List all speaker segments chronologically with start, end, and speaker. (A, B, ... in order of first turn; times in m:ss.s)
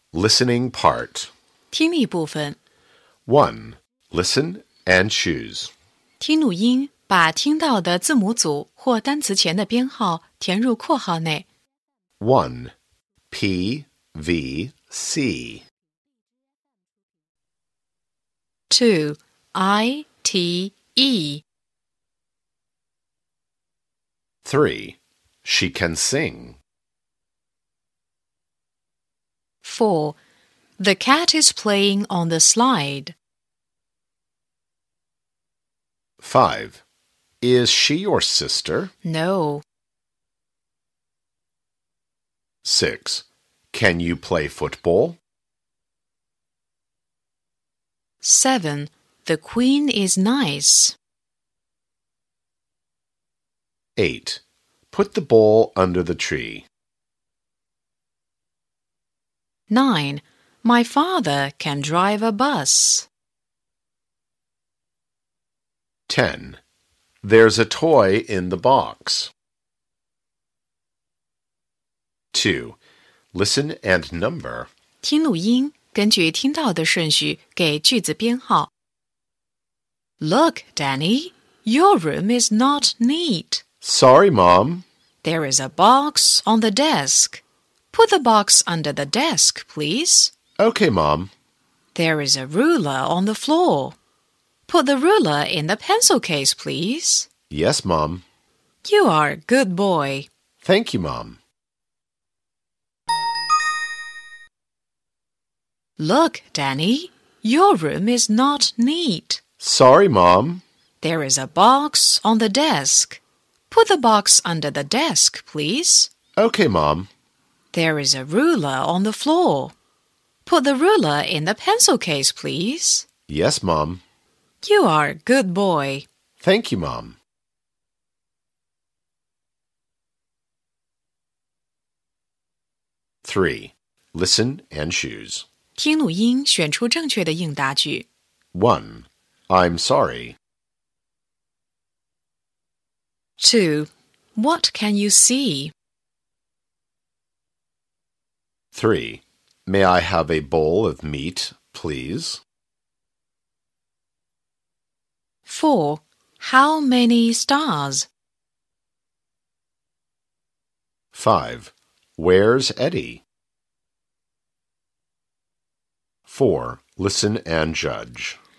0:00.1-0:01.3 A
0:01.7-0:02.6 B
0:03.3-0:05.7 A
0:06.2-0:11.5 B
0:12.2-0:12.7 A
0:13.3-0:15.6 A
0:18.7-0:21.4 B
0:24.4-0:26.6 A
0:29.6-0:30.2 B
0:30.8-0:33.2 B
0:36.2-0:36.8 A
0:37.4-0:38.9 A
0:39.0-0:39.6 B
0:42.6-0:45.2 A
0:48.2-0:51.0 B
0:54.0-0:54.4 A
0:54.9-0:56.7 A
0:59.7-1:03.1 B
1:06.1-1:06.6 A
1:07.2-1:09.3 A
1:12.3-1:12.8 A
1:13.3-1:14.7 A
1:15.0-1:18.7 B
1:20.2-1:23.6 B
1:23.8-1:24.8 A
1:25.2-1:30.3 B
1:30.6-1:31.3 A
1:32.0-1:34.0 B
1:34.7-1:37.3 B
1:37.5-1:38.2 A
1:38.8-1:40.3 B
1:40.6-1:41.4 A
1:46.0-1:49.4 B
1:49.6-1:50.6 A
1:51.0-1:56.1 B
1:56.4-1:57.1 A
1:57.7-1:59.7 B
2:00.4-2:03.1 B
2:03.3-2:04.0 A
2:04.6-2:06.1 B
2:06.4-2:07.2 A
2:13.2-2:15.5 A
2:15.8-2:18.1 B
2:18.5-2:20.4 A
2:23.4-2:25.7 B
2:28.7-2:32.4 A
2:35.5-2:38.1 B
2:41.1-2:43.2 A
2:46.3-2:48.4 A